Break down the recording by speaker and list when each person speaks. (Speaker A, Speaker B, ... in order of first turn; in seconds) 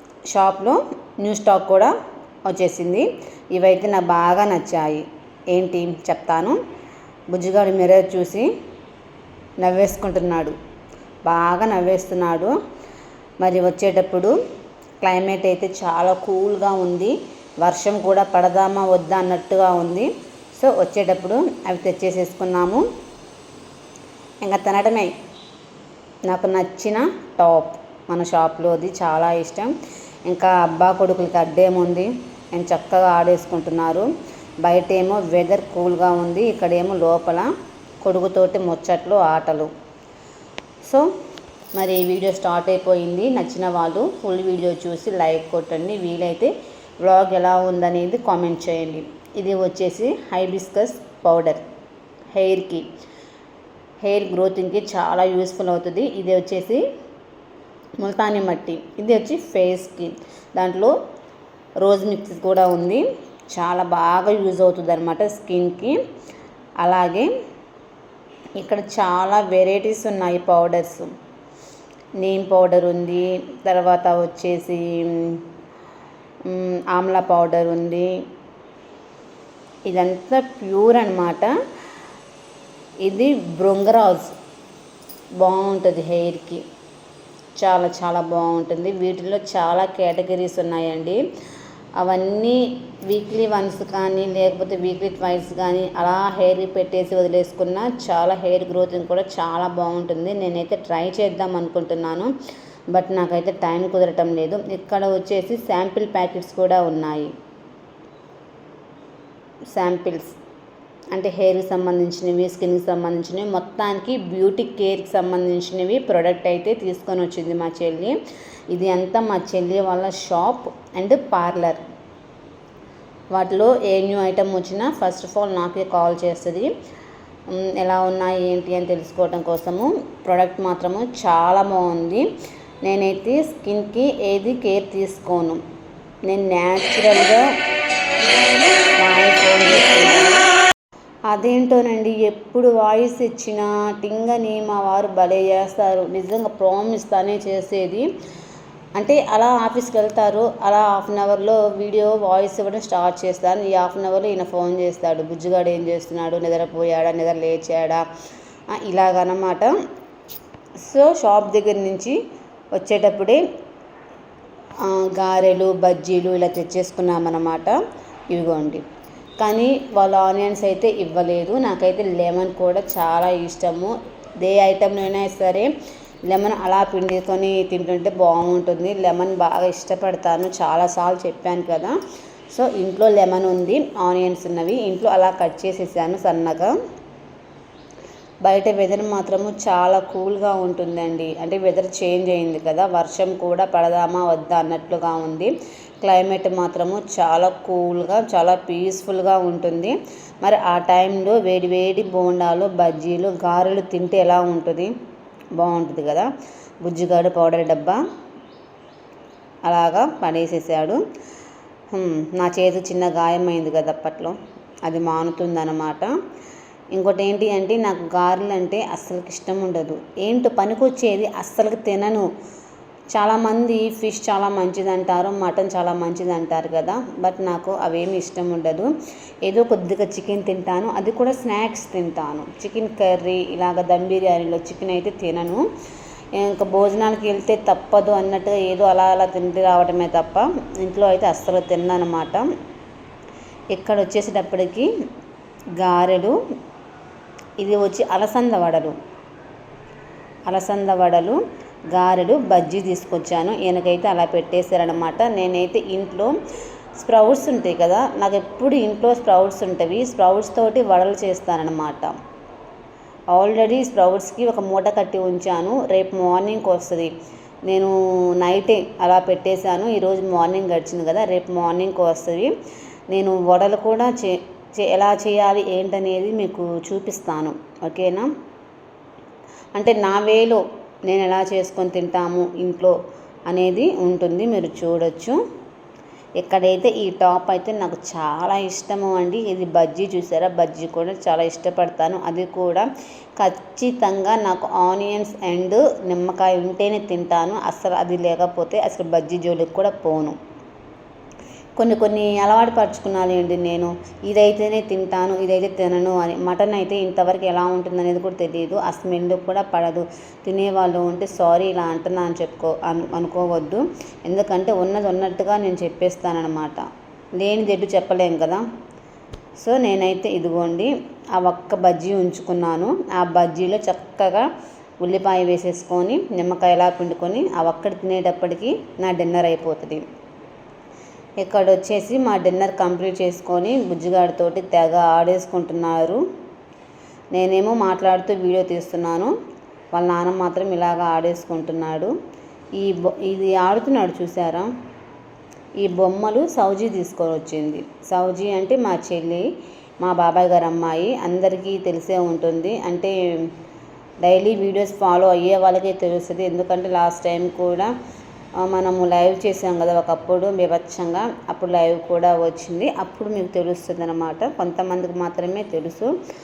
Speaker A: 0.3-1.9, 2.5-6.6, 7.3-8.5, 9.6-10.5, 11.2-12.6, 13.4-14.3, 15.0-22.8, 24.4-25.1, 26.3-29.7, 30.3-34.1, 34.6-37.5, 38.0-39.7, 41.7-51.6, 52.3-52.9, 54.0-56.8, 58.0-60.9, 61.8-65.9, 66.8-67.3, 68.6-71.1, 72.2-75.4, 76.4-78.1, 79.9-81.5, 83.0-84.3, 85.4-86.6, 87.6-91.2, 92.0-102.3, 102.9-107.3, 109.7-110.3, 111.1-118.2, 118.7-121.8, 123.3-126.7, 127.5-132.2, 132.8-135.6, 136.3-137.5, 139.0-140.4, 141.3-148.1, 149.0-158.1, 158.7-159.7, 160.8-162.2, 162.7-163.4, 164.8-167.8, 168.3-168.8, 169.4-175.7, 176.3-181.9, 182.5-186.7, 188.4-204.9, 205.6-206.3, 206.8-208.0, 209.7-211.0, 211.9-216.1, 216.9-222.3, 223.1-228.9, 229.4-235.6, 236.3-242.5, 243.7-244.9, 245.8-246.4, 247.6-248.9, 250.5-251.4, 251.9-256.3, 257.0-262.1, 263.3-267.1, 267.7-272.5, 273.1-278.3, 279.8-282.9, 283.5-285.4, 286.4-300.4, 301.8-316.9, 317.4-318.6, 319.6-324.5, 325.0-330.0, 331.4-336.2, 337.3-339.3, 339.9-342.1, 342.8-344.7, 345.8-349.4, 350.0-353.4, 354.2-357.9, 358.6-366.1